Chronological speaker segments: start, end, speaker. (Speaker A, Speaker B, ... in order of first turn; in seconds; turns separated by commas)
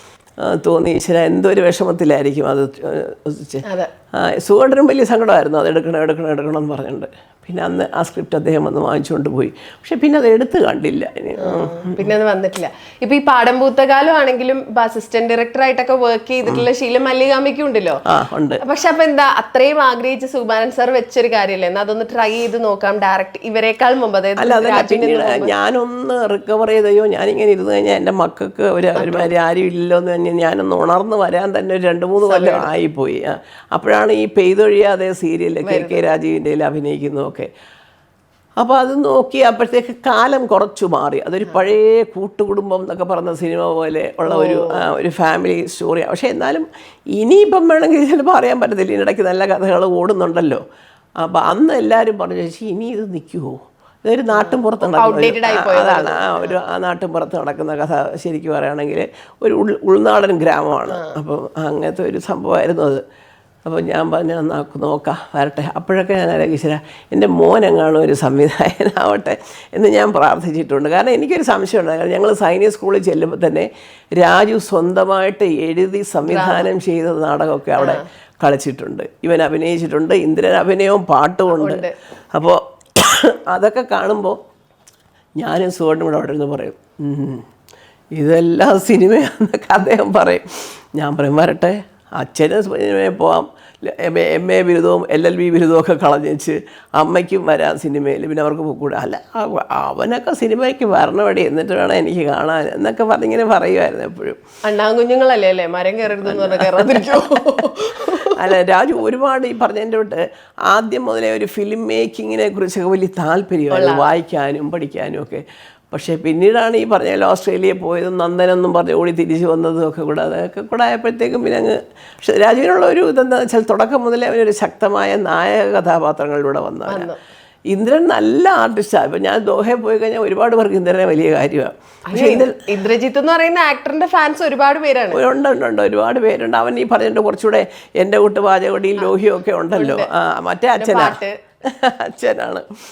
Speaker A: 0.4-3.6, Speaker B: 3.6-3.9, Speaker A: 4.2-12.1, Speaker B: 11.4-18.0, Speaker A: 18.1-18.6, Speaker B: 18.6-25.5, Speaker A: 24.4-37.5, Speaker B: 29.0-29.3, Speaker B: 32.2-32.7, Speaker B: 35.6-36.0, Speaker A: 38.6-50.6, Speaker B: 44.3-44.8, Speaker A: 51.2-63.0, Speaker B: 54.3-56.6, Speaker A: 63.7-84.4, Speaker B: 76.3-76.7, Speaker B: 77.8-78.0, Speaker B: 81.5-81.9, Speaker A: 85.4-87.5, Speaker A: 88.2-90.5, Speaker A: 91.0-104.4, Speaker B: 104.7-108.5, Speaker A: 106.2-127.1, Speaker B: 113.7-114.1, Speaker B: 126.9-127.2, Speaker A: 127.7-132.7, Speaker B: 132.1-135.2, Speaker A: 135.1-142.7, Speaker B: 139.8-140.1, Speaker B: 140.8-141.4